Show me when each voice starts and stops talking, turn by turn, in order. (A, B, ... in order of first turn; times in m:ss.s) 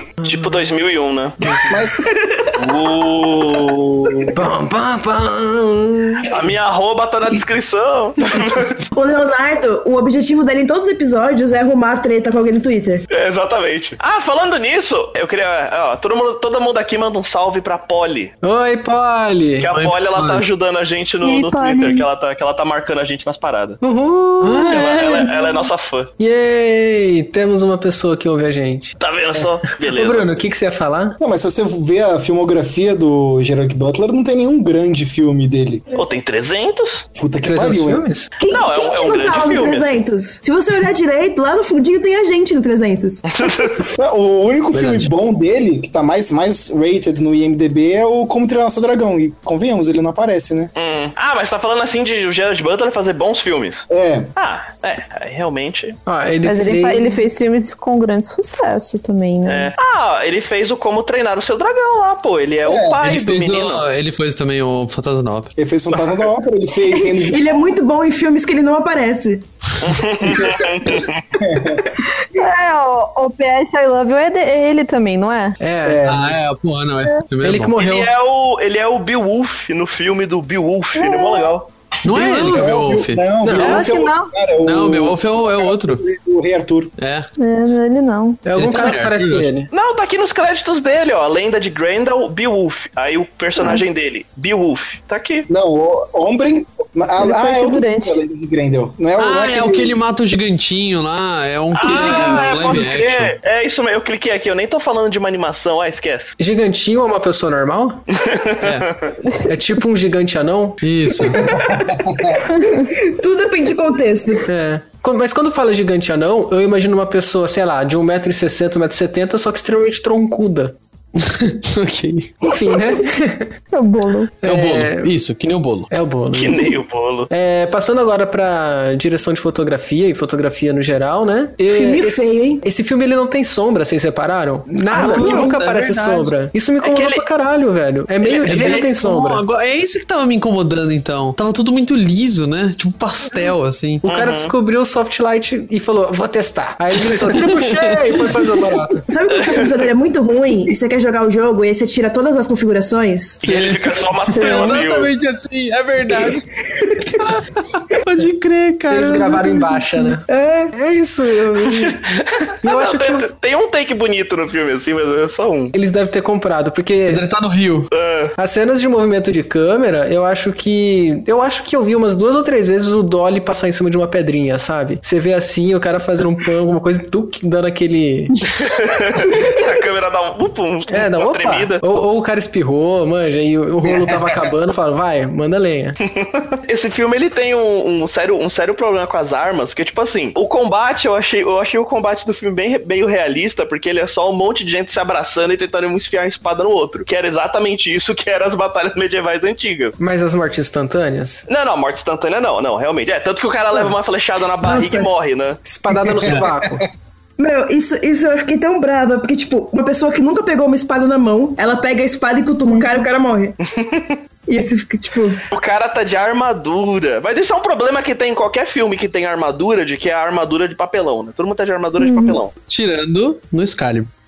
0:00.2-0:00.5 A
0:00.2-0:01.8 B
0:01.7-0:02.1 C
0:02.2-0:02.5 D
0:02.6-0:04.3 B
0:04.3-0:06.3 A
0:06.3-0:08.8 B
0:08.9-0:13.1 D
0:13.1-0:18.3 B
0:18.4-0:19.7 A
0:19.6-0:23.8 B
0:19.7-0:20.4 E
0:21.2-0:22.1 F
0:23.8-0:24.8 A
0:24.4-0:25.3 E
0:24.7-0:26.1 B
0:25.3-0:25.5 F
0:26.2-0:31.2 A
0:29.0-0:30.4 B
0:31.2-0:35.8 C
0:35.9-0:37.1 B
0:37.2-0:38.0 C
0:37.4-0:38.3 A
0:38.4-0:43.2 D
0:38.5-0:40.0 B
0:43.3-0:43.9 B
0:44.0-0:50.7 C
0:44.7-0:45.1 E
0:50.8-0:56.0 B
0:53.9-0:54.3 C
0:56.1-0:57.2 A
0:56.4-0:59.7 F
0:59.5-1:03.9 B
1:02.6-1:03.0 C
1:03.0-1:05.5 E
1:05.6-1:07.5 C
1:06.9-1:09.4 D
1:09.8-1:11.3 B
1:10.3-1:10.7 C
1:11.4-1:11.8 C
1:11.6-1:11.9 D
1:12.3-1:15.6 F
1:15.6-1:16.0 A
1:15.8-1:16.5 C
1:16.0-1:17.8 E
1:17.4-1:18.1 A
1:17.8-1:21.7 B
1:21.0-1:21.5 F
1:22.0-1:23.4 E
1:22.1-1:22.7 A
1:22.1-1:26.9 C
1:23.4-1:23.8 A
1:23.6-1:24.3 F
1:23.6-1:23.9 B
1:24.6-1:26.0 E
1:27.0-1:27.3 E
1:27.4-1:28.5 F
1:28.4-1:29.7 A
1:28.6-1:29.5 E
1:29.7-1:35.5 B
1:35.5-1:40.0 C
1:37.2-1:38.2 F
1:39.2-1:43.4 E
1:41.7-1:46.4 B
1:42.0-1:42.5 D
1:46.4-1:48.0 A
1:48.1-1:49.1 B
1:48.6-1:48.9 E
1:49.5-1:50.8 A
1:50.8-1:51.5 E
1:51.3-1:52.4 C
1:51.4-1:54.5 D
1:54.5-2:00.8 A
2:01.2-2:02.5 E
2:02.4-2:03.6 A
2:03.7-2:04.4 F
2:04.4-2:05.9 E
2:04.4-2:05.1 A
2:05.9-2:06.8 A
2:06.3-2:07.3 B
2:07.3-2:19.4 A
2:11.7-2:12.6 D
2:14.9-2:16.3 E
2:16.8-2:17.2 B
2:18.3-2:24.0 E
2:24.0-2:29.1 A
2:24.0-2:24.5 B
2:27.1-2:28.3 E
2:29.1-2:33.4 D
2:29.3-2:29.8 B
2:33.4-2:35.1 B
2:33.4-2:36.5 E
2:34.3-2:34.8 F
2:36.8-2:37.2 D
2:37.2-2:39.6 E
2:38.9-2:43.3 A
2:40.1-2:40.7 D
2:41.6-2:45.7 B
2:45.7-2:47.2 A
2:47.1-2:47.9 E
2:47.9-2:48.4 B
2:48.4-2:58.5 A
2:58.6-3:01.8 B
3:00.9-3:06.0 A
3:06.1-3:20.0 B
3:20.0-3:21.5 A
3:21.5-3:25.6 B
3:24.6-3:25.1 D
3:25.6-3:26.9 A
3:25.9-3:26.8 C
3:27.4-3:33.6 D
3:32.6-3:33.0 F
3:33.7-3:34.2 B
3:34.5-3:35.4 D
3:35.5-3:42.5 B
3:42.0-3:42.4 F
3:42.6-3:44.1 E